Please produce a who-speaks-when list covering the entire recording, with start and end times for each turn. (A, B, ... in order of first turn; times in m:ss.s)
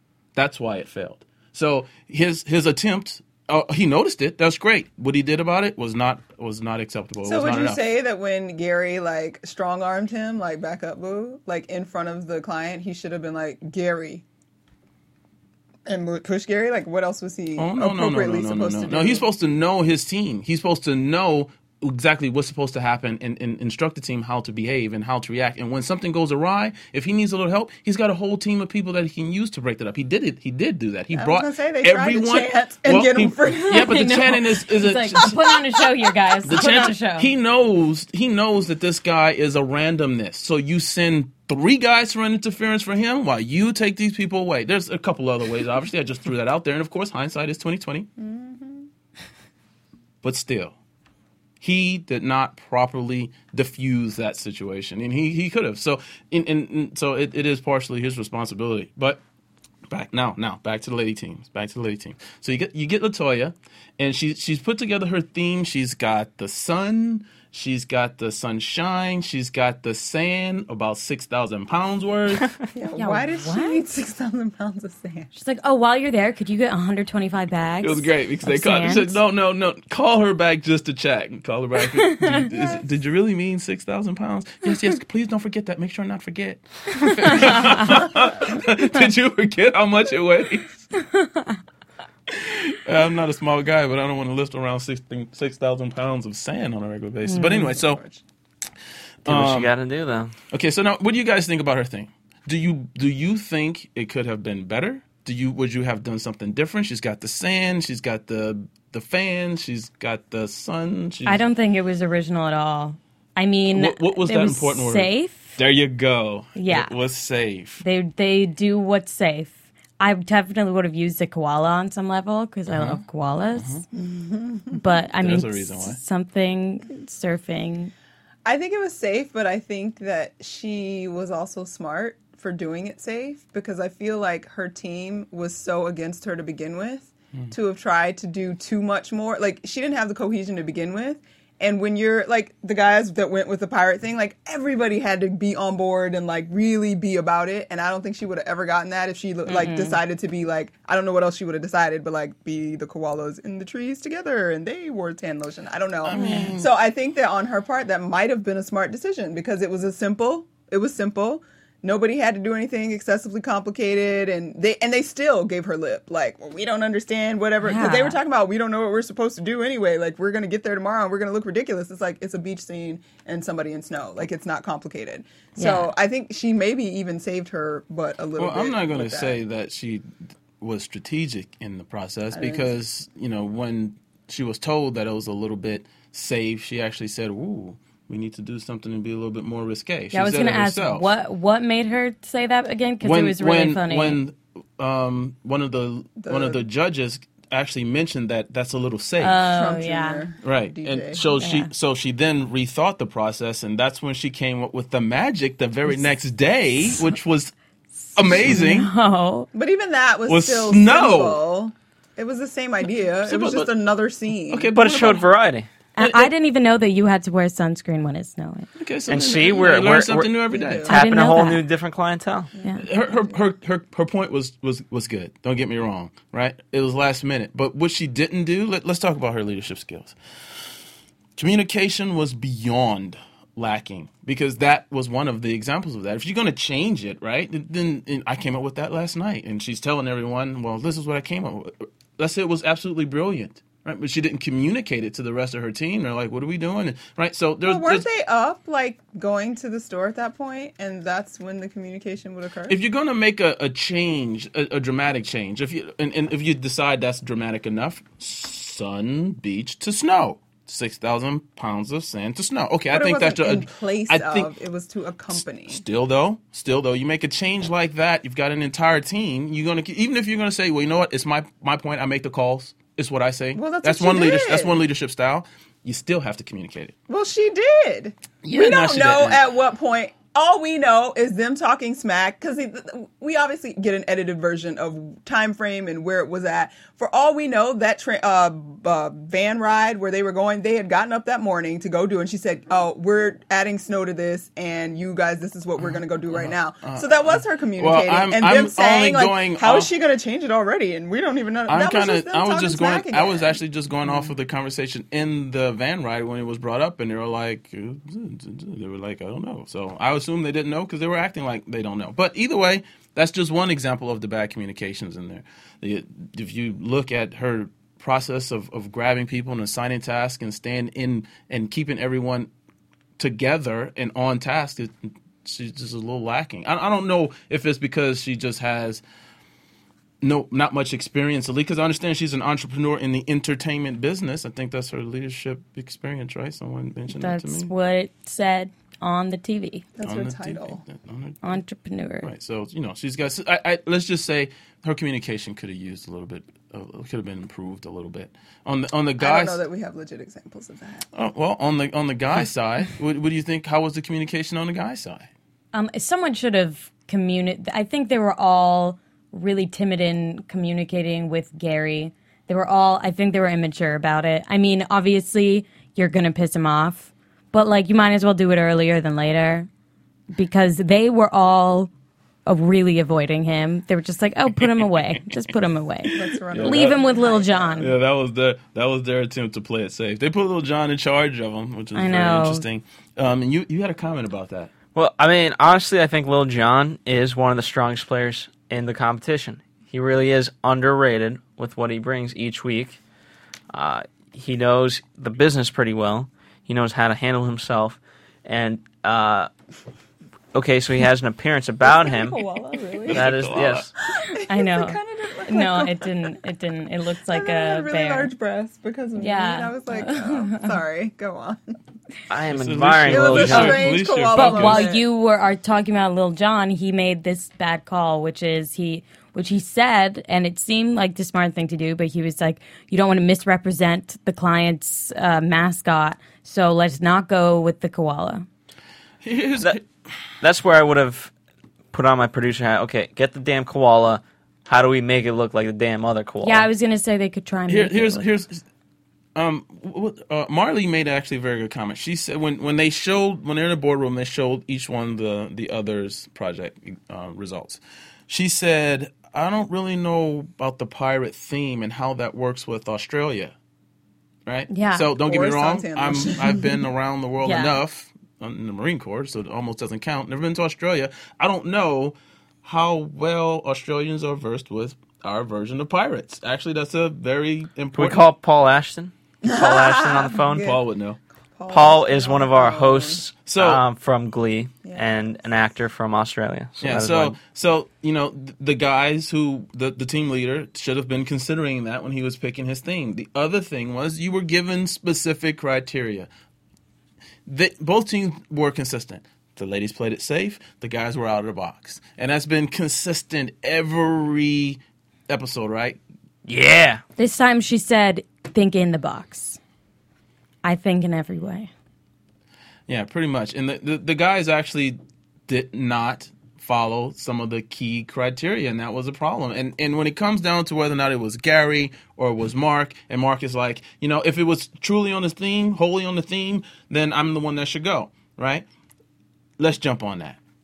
0:00.4-0:07.8 A
0:07.2-0:14.2 B
0:15.9-0:19.2 B
0:17.6-0:35.3 A
0:31.1-0:34.1 B
0:33.6-0:37.3 C
0:36.5-0:48.1 A
0:48.2-0:48.9 B
0:50.2-0:50.7 A
0:51.6-0:59.2 A
0:59.9-1:12.5 A
1:12.7-1:15.3 B
1:13.0-1:13.8 C
1:15.3-1:19.2 C
1:17.8-1:30.8 A
1:22.0-1:22.4 C
1:31.0-1:31.6 C
1:32.3-1:38.0 A
1:37.2-1:37.8 C
1:37.4-1:38.2 B
1:39.2-1:39.7 A
1:39.2-1:40.3 D
1:40.5-1:51.4 A
1:51.2-1:55.6 C
1:53.7-1:57.8 A
1:56.6-1:56.9 C
1:57.8-2:03.8 C
2:02.7-2:03.0 A
2:03.5-2:03.8 A
2:03.9-2:04.8 B
2:04.7-2:07.9 C
2:05.2-2:06.0 A
2:08.4-2:59.4 B
2:29.5-2:30.0 C
2:36.0-2:36.7 A
2:36.2-2:36.5 C
2:47.6-2:48.2 C
2:55.6-2:55.9 C
2:58.4-3:00.0 A
3:00.6-3:11.0 A
3:02.3-3:02.7 B
3:10.1-3:14.2 C
3:13.0-3:19.4 A
3:16.2-3:16.6 B
3:19.2-3:20.2 C
3:19.4-3:21.2 B
3:20.4-3:27.5 A
3:21.4-3:21.7 C
3:28.2-3:28.9 A
3:28.3-3:29.5 C
3:29.5-3:34.7 B
3:30.3-3:31.4 A
3:33.2-3:33.7 A
3:34.5-3:35.3 A
3:34.7-3:35.7 D
3:36.0-3:38.7 C
3:36.0-3:36.3 A
3:38.8-3:40.9 A
3:39.1-3:42.5 D
3:40.5-3:40.9 B
3:40.9-3:41.6 C
3:42.6-3:42.8 B
3:42.8-3:50.2 A
3:51.4-4:08.0 A
4:07.6-4:12.8 B
4:12.7-4:24.5 A
4:22.9-4:25.8 B
4:25.3-4:37.0 A
4:33.5-4:34.8 B
4:37.1-5:04.3 B
4:38.4-4:39.4 A
4:55.8-4:59.9 A
5:01.7-5:22.5 A
5:23.2-5:29.0 A
5:30.2-5:37.7 A
5:37.1-5:39.8 C
5:40.0-5:40.8 B
5:40.0-5:41.4 A
5:41.4-5:42.3 C
5:42.2-5:49.6 A
5:49.2-5:51.1 B
5:51.1-5:55.3 A
5:55.7-6:09.7 C
6:10.3-6:11.9 C
6:12.5-6:17.9 C
6:16.1-6:17.9 B
6:16.2-6:17.0 A
6:17.8-6:24.7 A
6:22.0-6:22.6 C
6:25.0-6:33.0 D
6:33.7-6:39.5 D
6:40.5-6:42.4 D
6:41.8-6:43.3 B
6:43.0-6:43.9 A
6:43.1-6:43.9 D
6:44.2-6:46.1 B
6:44.5-6:48.3 C
6:47.3-6:51.6 B
6:49.2-6:50.7 C
6:52.3-6:54.0 D
6:52.5-6:54.9 A
6:53.0-6:55.0 B
6:54.3-7:08.5 C
7:09.2-7:09.8 A
7:10.4-7:11.3 D
7:11.9-7:16.7 D
7:16.4-7:18.2 C
7:17.7-7:18.6 A
7:19.4-7:33.5 A
7:34.5-7:48.2 A
7:34.7-7:35.1 C
7:35.2-7:36.7 B
7:37.4-7:37.7 C
7:48.0-7:50.8 D
7:49.5-7:50.8 B
7:50.5-7:51.2 A
7:51.6-7:53.2 B
7:51.7-7:57.4 D
7:53.5-7:53.8 A
7:54.8-7:55.7 B
7:56.8-8:06.3 A
8:07.5-8:16.0 A
8:16.5-8:17.0 D
8:17.2-8:19.6 C
8:20.6-8:21.7 C
8:22.9-8:25.0 A
8:25.5-8:38.6 A
8:39.6-8:40.4 A